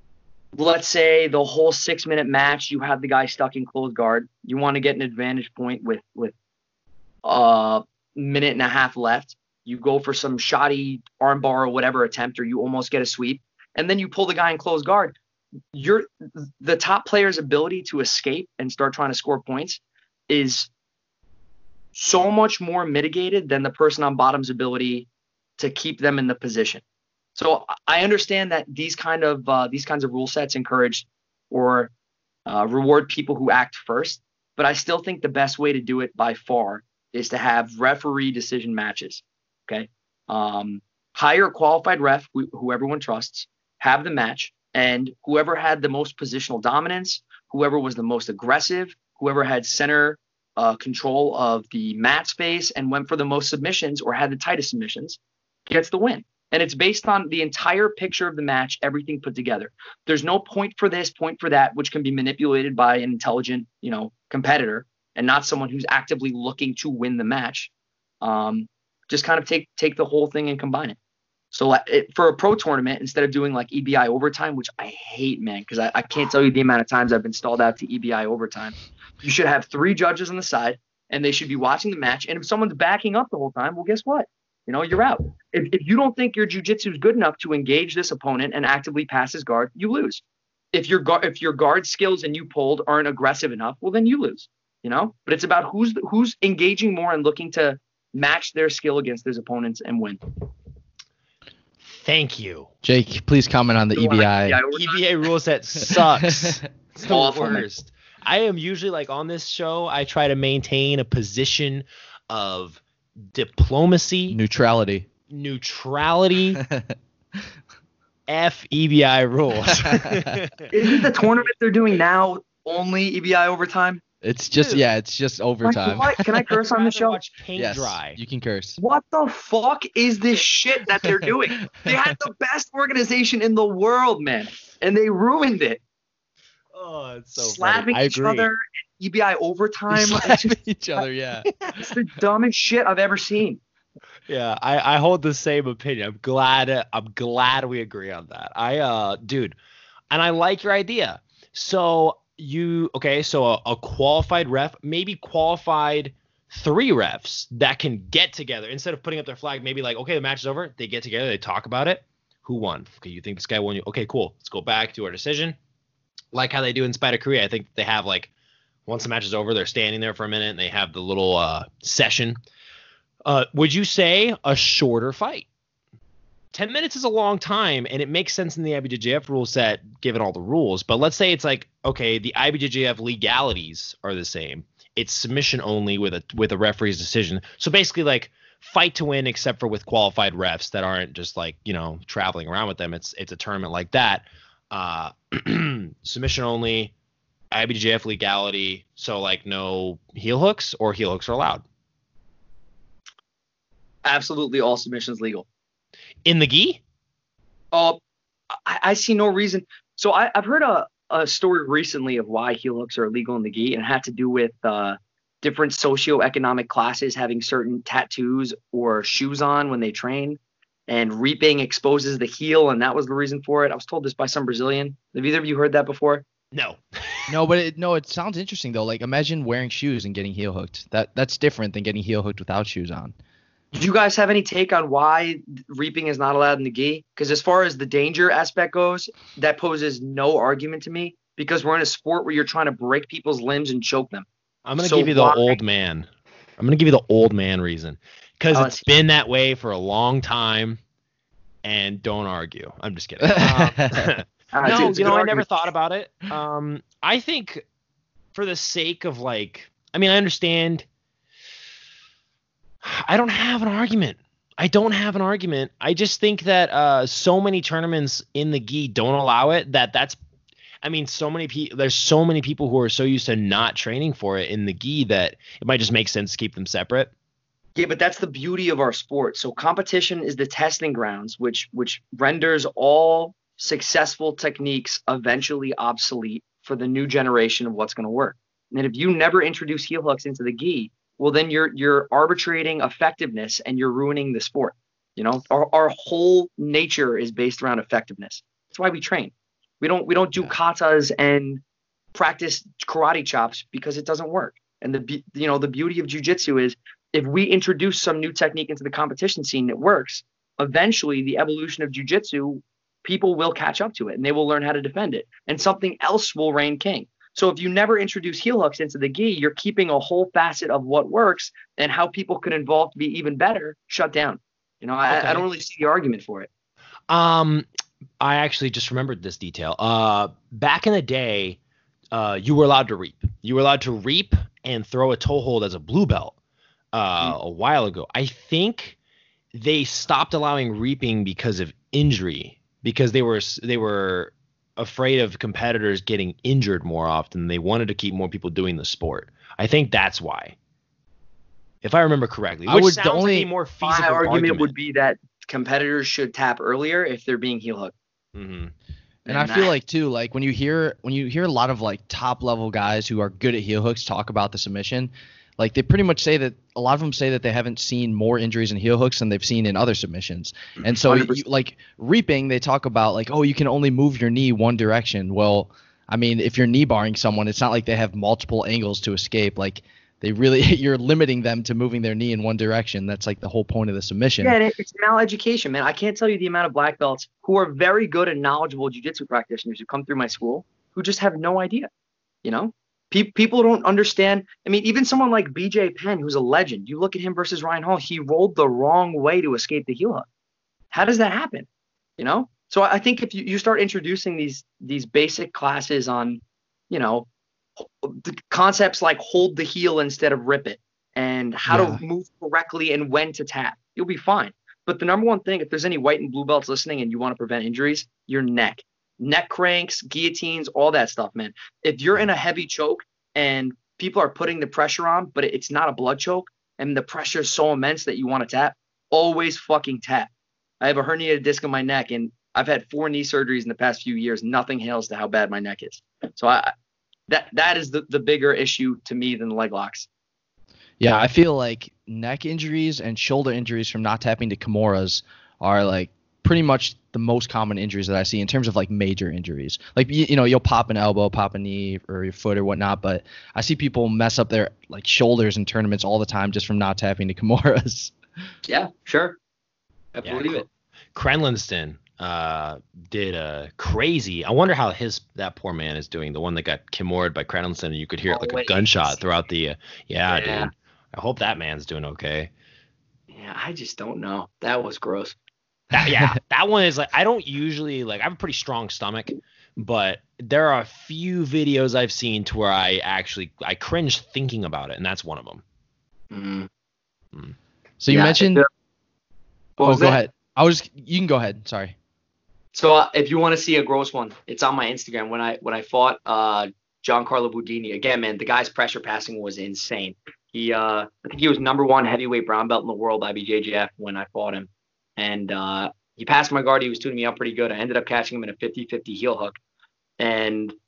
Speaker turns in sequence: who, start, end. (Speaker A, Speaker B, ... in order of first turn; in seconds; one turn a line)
Speaker A: 0.5-6.3
Speaker A: 7.2-15.2
Speaker A: 15.7-20.7
Speaker A: 21.9-26.8
Speaker A: 27.4-31.9
Speaker A: 32.5-67.7
Speaker A: 68.2-71.0
Speaker A: 71.5-90.2
Speaker A: 90.7-100.2
Speaker B: 101.8-102.7
Speaker C: 102.8-104.6
Speaker A: 104.0-105.0
Speaker B: 104.7-114.4
Speaker A: 107.1-107.7
Speaker C: 114.3-115.1
Speaker B: 115.3-116.6
Speaker C: 116.6-116.9
Speaker B: 118.3-120.7
Speaker A: 120.7-124.0
Speaker C: 124.2-126.2
Speaker B: 124.5-124.8
Speaker A: 125.6-127.2
Speaker B: 126.2-128.2
Speaker C: 127.6-128.8
Speaker A: 128.8-135.8
Speaker B: 136.7-138.5
Speaker A: 137.4-141.0
Speaker C: 139.9-141.5
Speaker A: 141.8-143.6
Speaker B: 144.3-149.6
Speaker B: 150.1-165.6
Speaker B: 166.3-168.3
Speaker B: 168.9-172.4
Speaker B: 173.2-175.5
Speaker B: 176.5-196.9
Speaker B: 197.5-201.7
Speaker A: 204.1-205.5
Speaker B: 206.2-206.8
Speaker A: 207.7-208.0
Speaker A: 208.5-226.2
Speaker B: 226.5-227.3
Speaker C: 227.3-233.2
Speaker A: 233.7-244.3
Speaker B: 244.7-246.1
Speaker A: 244.8-245.6
Speaker B: 246.6-250.8
Speaker A: 248.5-248.8
Speaker B: 251.6-257.6
Speaker C: 253.2-254.1
Speaker A: 254.5-255.6
Speaker B: 258.3-260.9
Speaker B: 262.8-270.2
Speaker B: 270.8-277.1
Speaker A: 277.8-301.6
Speaker A: 302.1-326.5
Speaker B: 325.1-325.4
Speaker B: 327.1-327.7
Speaker B: 328.2-331.6
Speaker B: 332.1-336.4
Speaker B: 336.9-339.0
Speaker B: 339.5-350.6
Speaker B: 351.8-354.7
Speaker C: 352.7-353.5
Speaker A: 353.8-357.9
Speaker B: 358.4-358.7
Speaker A: 359.3-359.7
Speaker C: 359.3-384.6
Speaker A: 371.1-371.4
Speaker A: 384.4-391.9
Speaker A: 392.4-400.3
Speaker A: 400.9-401.7
Speaker A: 402.2-407.3
Speaker A: 407.8-430.3
Speaker C: 411.7-412.0
Speaker A: 430.8-436.7
Speaker A: 437.3-440.1
Speaker C: 441.0-458.1
Speaker A: 458.7-459.4
Speaker A: 460.1-460.7
Speaker B: 460.2-472.5
Speaker A: 468.3-469.1
Speaker A: 470.3-470.7
Speaker A: 473.3-475.4
Speaker B: 475.9-485.6
Speaker A: 486.3-486.7
Speaker C: 488.0-488.6
Speaker A: 488.1-488.7
Speaker A: 489.8-490.2
Speaker C: 489.8-491.9
Speaker A: 492.7-509.6
Speaker A: 510.2-510.7